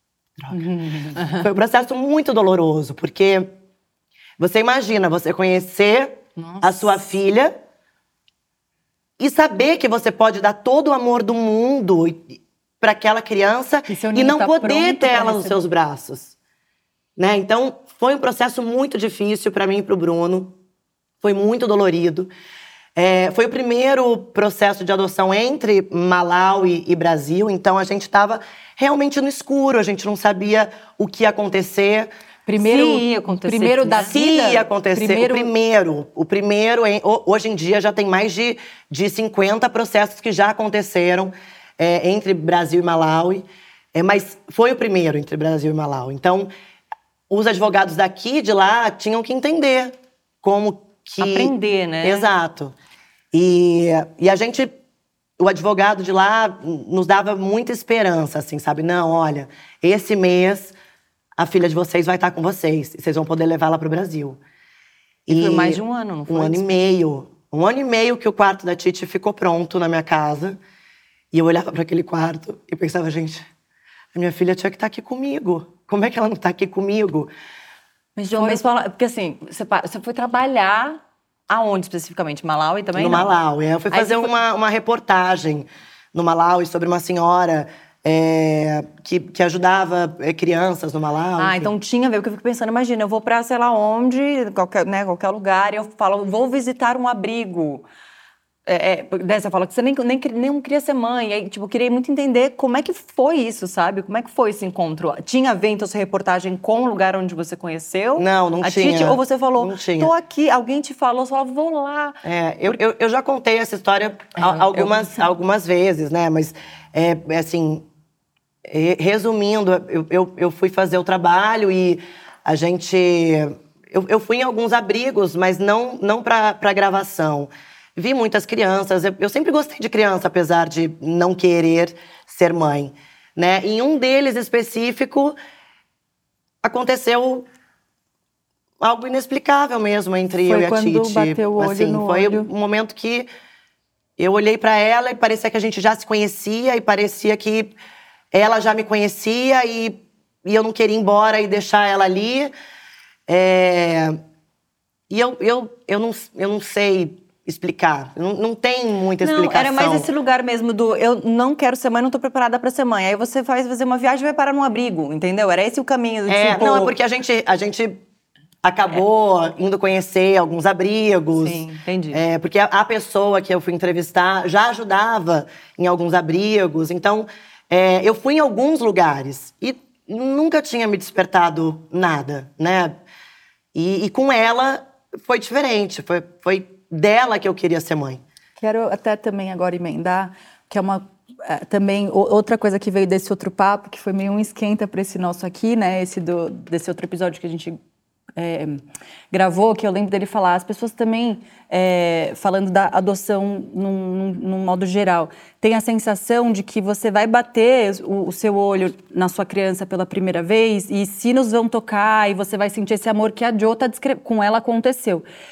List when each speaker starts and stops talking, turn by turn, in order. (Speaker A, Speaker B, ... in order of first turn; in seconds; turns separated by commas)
Speaker A: 0.4-3.5, Speaker B: 0.5-1.5, Speaker A: 4.4-7.5, Speaker B: 6.4-7.0, Speaker A: 9.2-16.3, Speaker C: 13.9-15.6, Speaker A: 17.2-20.6, Speaker A: 21.2-22.3, Speaker A: 22.9-32.1, Speaker C: 32.5-35.5, Speaker B: 32.5-34.1, Speaker A: 34.1-46.5, Speaker A: 47.3-52.8, Speaker B: 51.2-52.3, Speaker A: 53.3-54.8, Speaker A: 55.4-60.7, Speaker A: 61.4-64.4, Speaker A: 65.3-70.6, Speaker B: 65.3-66.6, Speaker A: 71.3-73.4, Speaker A: 74.1-77.3, Speaker B: 78.2-83.3, Speaker C: 78.3-78.6, Speaker A: 83.0-91.7, Speaker B: 83.9-84.3, Speaker B: 91.4-97.9, Speaker B: 98.7-112.2, Speaker A: 108.2-110.1, Speaker A: 112.2-117.8, Speaker B: 114.4-115.1, Speaker A: 118.7-135.3, Speaker A: 136.6-137.5, Speaker A: 138.8-143.3, Speaker C: 140.4-142.5, Speaker A: 144.2-147.8, Speaker A: 148.3-152.5, Speaker A: 153.3-154.2, Speaker A: 155.1-160.1, Speaker B: 159.2-166.9, Speaker A: 166.3-168.0, Speaker A: 168.6-182.9, Speaker B: 171.4-172.2, Speaker A: 183.7-188.2, Speaker C: 188.6-197.8, Speaker C: 198.4-215.2